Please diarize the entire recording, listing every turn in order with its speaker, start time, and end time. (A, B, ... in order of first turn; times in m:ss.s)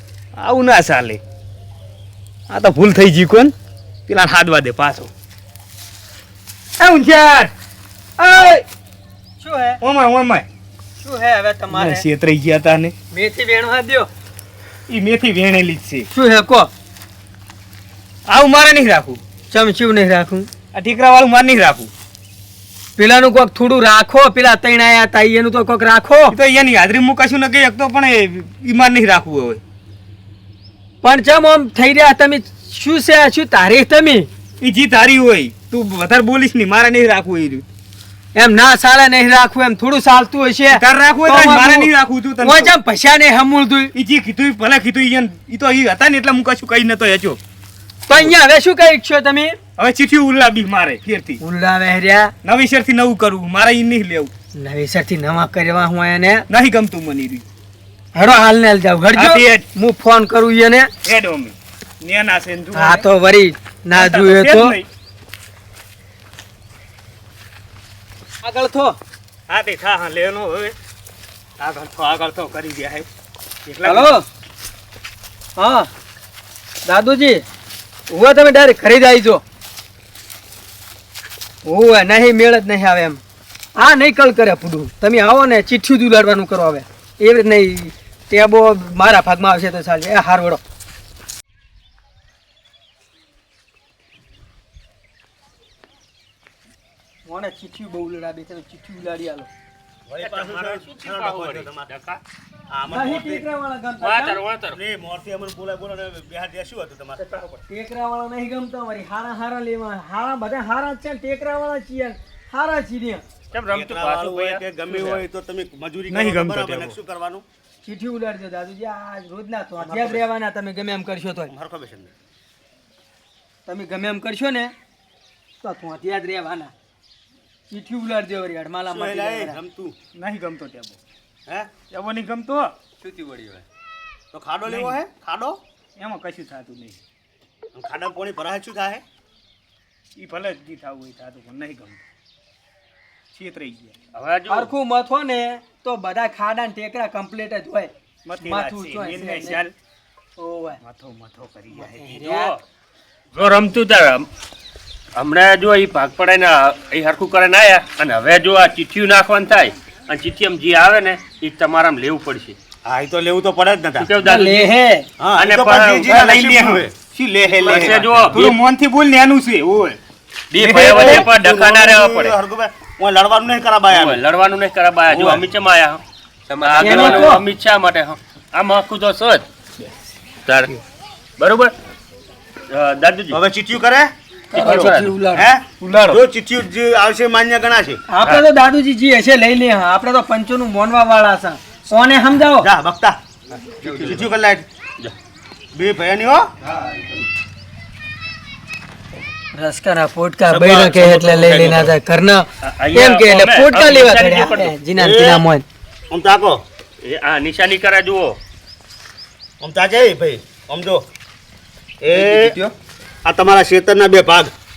0:00.4-0:01.2 A
0:02.5-0:03.5 A
0:04.1-0:05.1 A
0:06.8-0:07.5 A
0:08.2-0:08.6 A
0:09.4-0:09.8 B
0:09.8-0:10.5 A
0:11.0-0:12.0 B
0:11.7-0:12.9 A
0:13.1-0:14.1 B
0:14.9-0:16.1 A
0:16.1-0:16.7 B
0:18.3-0:19.2 A
0:19.5-0:20.5 B
0:20.7-0:21.9 A
0:23.0-0:26.4 B
0:26.3-0:29.6 A
0:31.0-0:34.3 B
0:34.6-0:37.6 A
0:38.3-0:43.9 B
0:40.8-0:42.7 A
0:43.9-0:47.4 A
0:48.1-0:49.6 B
0:49.8-0:51.4 A
0:51.4-0:52.3 B
0:52.4-0:54.3 A
0:54.5-0:56.5 B
0:56.5-0:57.4 A
0:58.1-1:00.9 B
0:59.1-0:59.6 A
1:01.0-1:03.0 A
1:02.7-1:04.8 B
1:03.9-1:04.9 A
1:08.4-1:09.0 B
1:09.5-1:10.7 A
1:11.6-1:13.0 A
1:13.6-1:14.1 A
1:13.8-1:14.2 B
1:15.6-1:15.9 B
1:16.8-1:17.4 B
1:18.1-1:19.4 B
1:21.6-1:23.2 B
1:23.8-1:30.6 B
1:37.2-1:39.5 B
1:40.1-1:41.9 C
1:40.2-1:42.2 D
1:42.7-1:43.4 C
1:42.9-1:44.4 B
1:44.0-1:44.8 D
1:44.7-1:47.2 C
1:47.2-1:53.2 B
1:53.5-1:55.2 D
1:53.7-1:57.4 C
1:56.1-1:57.0 A
1:57.8-2:01.5 B
1:59.8-2:00.2 C
2:01.5-2:02.1 C
2:03.6-2:04.7 B
2:05.6-2:06.7 B
2:07.7-2:09.6 B
2:08.9-2:10.0 C
2:10.2-2:11.0 A
2:11.5-2:11.7 C
2:11.9-2:12.7 A
2:13.0-2:13.6 D
2:14.3-2:15.6 C
2:14.7-2:15.0 A
2:16.0-2:17.0 A
2:17.7-2:19.0 C
2:20.2-2:22.0 A
2:23.3-2:23.9 A
2:24.1-2:24.7 D
2:24.5-2:29.6 B
2:28.2-2:29.7 A
2:30.4-2:30.8 B
2:30.8-2:32.1 A
2:31.7-2:32.6 B
2:32.2-2:32.6 D
2:33.3-2:34.3 D
2:35.1-2:42.6 D
2:42.8-2:44.1 C
2:44.0-2:44.7 D
2:44.2-2:45.1 B
2:45.2-2:46.9 C
2:45.4-2:46.0 D
2:46.0-2:50.0 A
2:47.5-2:48.3 C
2:47.6-2:48.6 D
2:50.5-2:52.4 D
2:50.6-2:51.0 A
2:50.7-2:54.2 C
2:53.9-2:59.4 D
2:55.1-2:55.4 C
2:56.8-2:57.4 B
3:00.4-3:00.8 D
3:01.4-3:01.7 D
3:02.7-3:03.4 D
3:03.3-3:04.1 C
3:04.5-3:05.5 B
3:04.5-3:05.2 D
3:05.3-3:08.0 C
3:05.8-3:06.2 A
3:08.1-3:12.7 B
3:12.6-3:13.2 C
3:13.6-3:14.3 D
3:13.8-3:14.7 C
3:15.7-3:16.5 C
3:19.5-3:25.6 B
3:20.5-3:21.9 C
3:22.6-3:24.7 D
3:25.0-3:25.4 C
3:26.1-3:26.6 C
3:27.0-3:28.4 D
3:29.6-3:31.0 C
3:32.0-3:32.6 C
3:32.1-3:32.6 D
3:33.2-3:34.5 C